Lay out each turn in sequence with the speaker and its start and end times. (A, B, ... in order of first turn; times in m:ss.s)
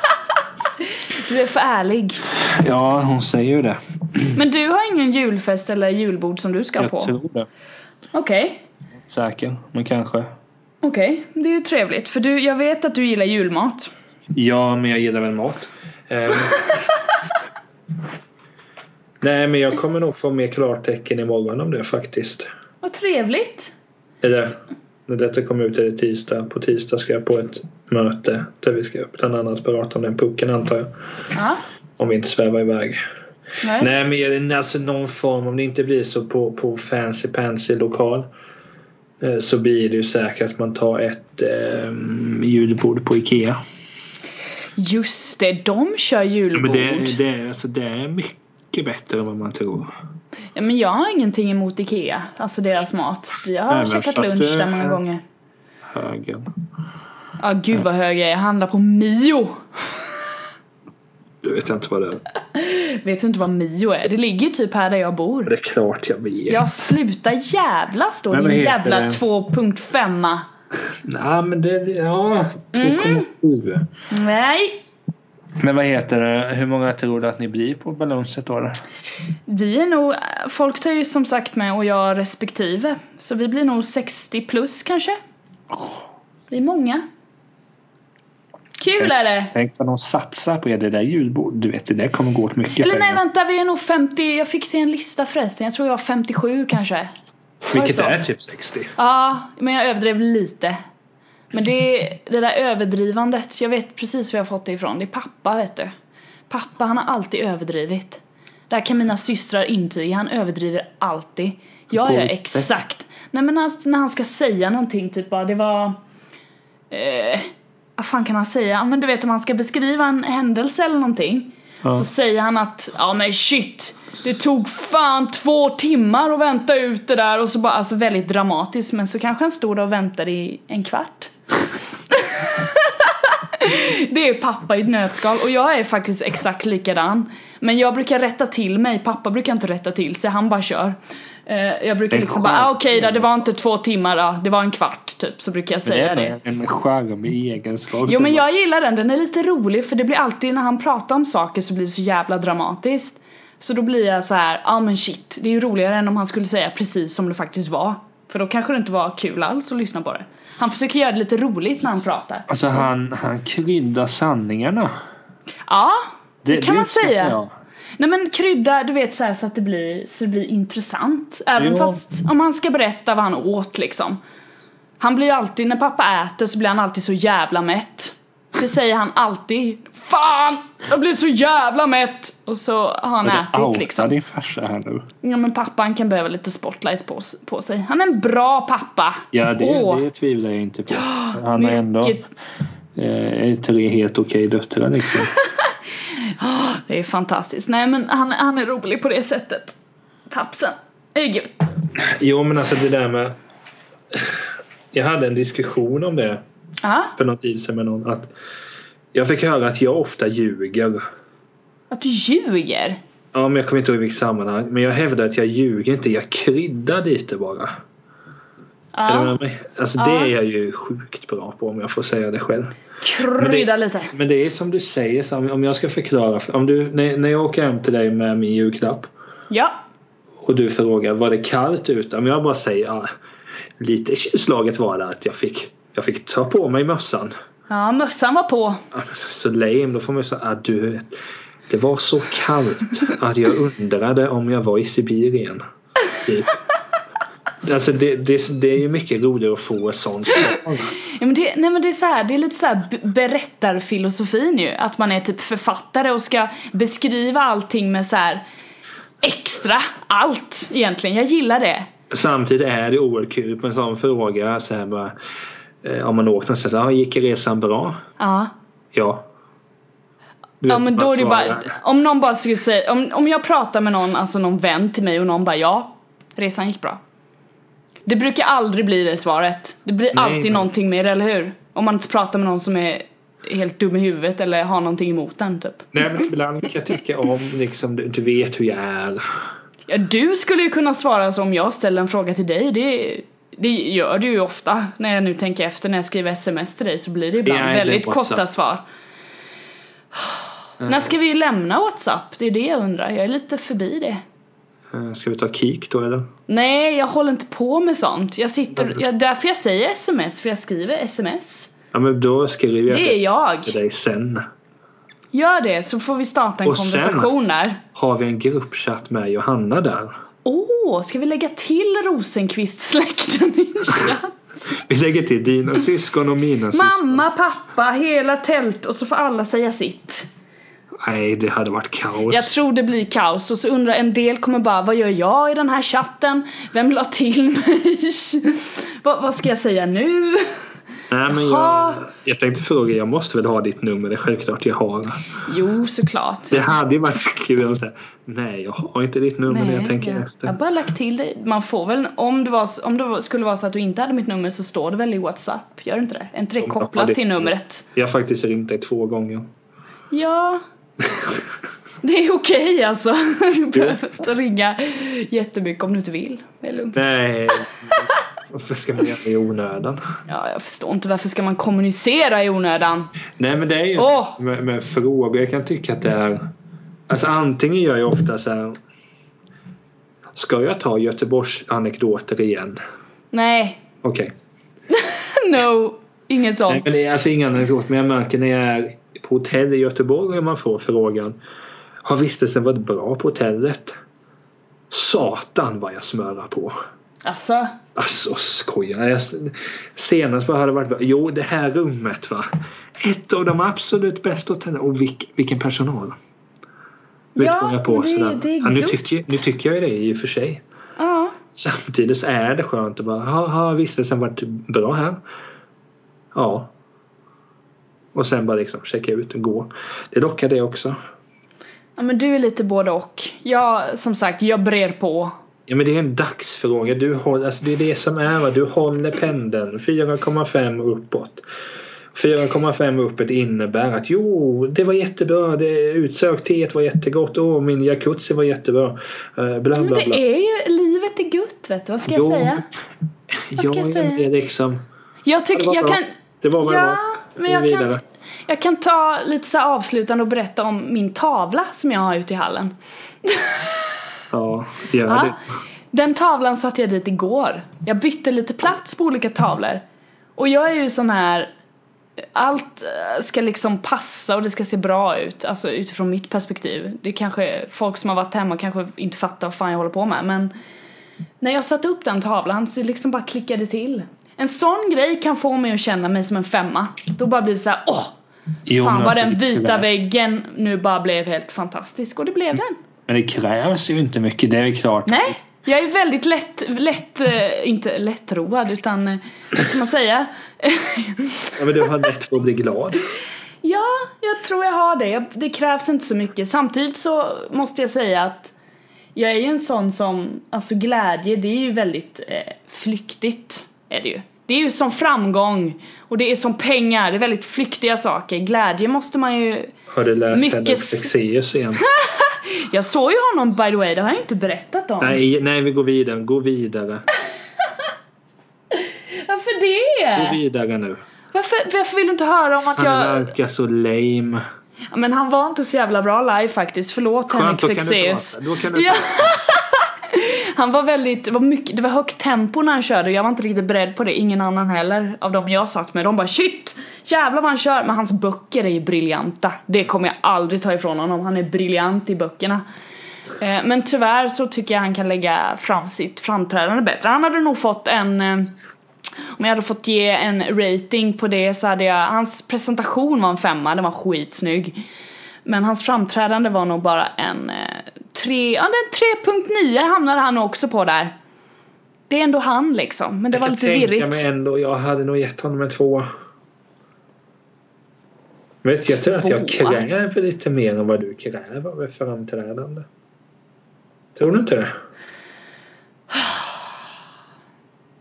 0:00.8-0:02.2 A
0:02.4-0:04.4 B
0:04.3-0:07.1 A
0:06.8-0:07.5 B
0:08.1-0:08.6 A
0:09.0-0:10.3 B
0:10.8-0:13.9 A
0:14.3-0:16.9 B
0:19.2-0:22.5 B
0:22.8-0:23.7 A
0:24.2-0:30.9 B
0:31.3-0:31.6 A
0:32.0-0:33.0 B
0:33.6-0:33.9 A
0:33.8-0:38.3 B
0:39.2-0:43.6 B
0:44.8-0:47.2 A
0:46.5-0:49.9 B
0:50.5-0:55.2 A
0:53.7-0:55.0 B
0:55.9-0:56.5 B
0:57.4-1:00.1 A
1:01.4-1:02.2 B
1:02.5-1:05.5 A
1:05.4-1:06.6 B
1:06.5-1:10.4 A
1:08.3-1:09.2 B
1:11.0-1:13.9 B
1:12.7-1:13.3 A
1:14.1-1:14.8 A
1:15.6-1:18.7 B
1:19.5-1:25.2 A
1:25.7-1:26.0 B
1:26.5-1:27.0 A
1:28.8-1:29.5 A
1:29.0-1:33.2 B
1:32.7-1:37.1 A
1:37.7-1:38.9 B
1:37.7-1:38.2 A
1:39.0-1:40.8 A
1:41.5-1:45.9 A
1:46.5-1:56.0 A
1:51.9-1:52.7 B
1:56.9-2:11.3 A
2:12.1-2:26.3 A
2:22.1-2:23.3 B
2:25.8-2:28.4 B
2:28.0-2:42.8 A
2:42.5-2:44.9 B
2:45.7-2:47.4 A
2:46.4-2:47.5 B
2:48.0-2:54.2 A
2:51.6-2:52.0 B
2:55.0-3:04.1 A
3:03.2-3:05.1 B
3:05.2-3:10.0 A
3:09.3-3:12.2 B
3:10.9-3:12.2 A
3:12.9-3:15.3 B
3:16.2-3:19.8 A
3:20.3-3:21.7 A
3:22.0-3:23.4 B
3:24.1-3:26.4 B
3:26.8-3:27.1 A
3:27.1-3:28.3 B
3:29.1-3:31.0 B
3:31.9-3:33.0 A
3:33.3-3:37.7 B
3:38.9-3:39.4 A
3:39.1-3:42.8 B
3:40.0-3:40.3 A
3:43.0-3:44.1 A
3:43.4-3:49.1 B
3:49.5-3:49.8 A
3:50.4-3:53.1 B
3:53.8-3:57.3 B
3:57.7-3:58.8 A
3:58.9-4:01.2 B
4:01.7-4:05.6 B
4:06.2-4:06.6 B
4:07.6-4:10.9 B
4:11.1-4:18.4 A
4:19.2-4:21.9 A
4:22.1-4:25.1 B
4:25.8-4:28.0 B
4:28.2-4:28.5 A
4:28.9-4:29.2 B
4:30.6-4:31.7 B
4:30.6-4:37.0 A
4:38.0-4:46.3 A
4:40.1-4:40.7 B
4:45.9-4:49.2 B
4:49.9-4:58.8 A
4:57.4-4:58.4 B
5:00.2-5:04.2 A
5:00.8-5:01.1 B
5:04.9-5:06.3 B
5:06.5-5:11.7 A
5:11.9-5:14.4 B
5:12.9-5:13.8 A
5:15.3-5:17.8 A
5:16.6-5:17.3 B
5:17.9-5:20.1 B
5:20.4-5:24.8 A
5:24.7-5:27.2 B
5:26.7-5:30.3 A
5:31.0-5:32.5 B
5:32.3-5:40.5 A
5:41.1-5:45.3 B
5:41.3-5:42.0 A
5:45.4-5:46.6 A
5:46.5-5:50.5 B
5:49.5-5:57.9 A
5:56.6-5:59.5 B
6:00.1-6:00.6 A
6:01.0-6:01.4 B
6:02.0-6:07.0 A
6:03.7-6:04.0 B
6:06.9-6:10.0 B
6:10.3-6:13.1 A
6:13.4-6:16.5 B
6:14.0-6:14.4 A
6:17.1-6:18.8 B
6:20.3-6:22.8 B
6:23.3-6:23.8 A
6:24.0-6:24.3 B
6:24.9-6:26.9 A
6:26.7-6:31.4 B
6:32.0-6:34.0 B
6:34.9-6:36.7 B
6:37.2-6:37.7 A
6:38.0-6:46.2 B
6:47.4-6:49.4 A
6:47.4-6:50.6 B
6:51.0-6:51.4 A
6:51.5-6:55.2 B
6:56.3-6:56.7 B
6:58.1-7:01.0 B
7:02.0-7:05.3 A
7:05.7-7:11.4 B
7:12.1-7:20.2 B
7:19.7-7:22.6 A
7:22.1-7:22.7 B
7:23.4-7:24.8 B
7:23.6-7:24.2 A
7:25.2-7:26.1 A
7:25.5-7:28.0 B
7:26.6-7:34.0 A
7:34.3-7:35.4 B
7:35.0-7:35.4 A
7:35.9-7:39.8 A
7:40.4-7:41.5 A
7:42.3-7:50.5 A
7:51.4-7:58.1 A
7:58.7-7:59.9 B
7:58.7-8:02.8 A
8:03.1-8:05.4 B
8:05.1-8:11.9 A
8:11.6-8:13.0 B
8:13.6-8:18.5 A
8:19.1-8:29.7 A
8:29.9-8:31.8 B
8:30.3-8:31.1 A
8:31.8-8:35.2 A
8:35.0-8:37.0 B
8:38.7-8:40.4 A
8:40.2-8:41.0 B
8:41.3-8:43.3 A
8:42.8-8:44.4 B
8:44.9-9:02.6 A
8:47.3-8:49.4 B
9:03.4-9:08.5 A
9:09.4-9:14.8 A
9:15.4-9:21.1 A
9:22.1-9:24.2 A
9:23.3-9:26.1 B
9:28.6-9:32.9 B
9:28.9-9:29.8 A
9:34.1-9:34.7 B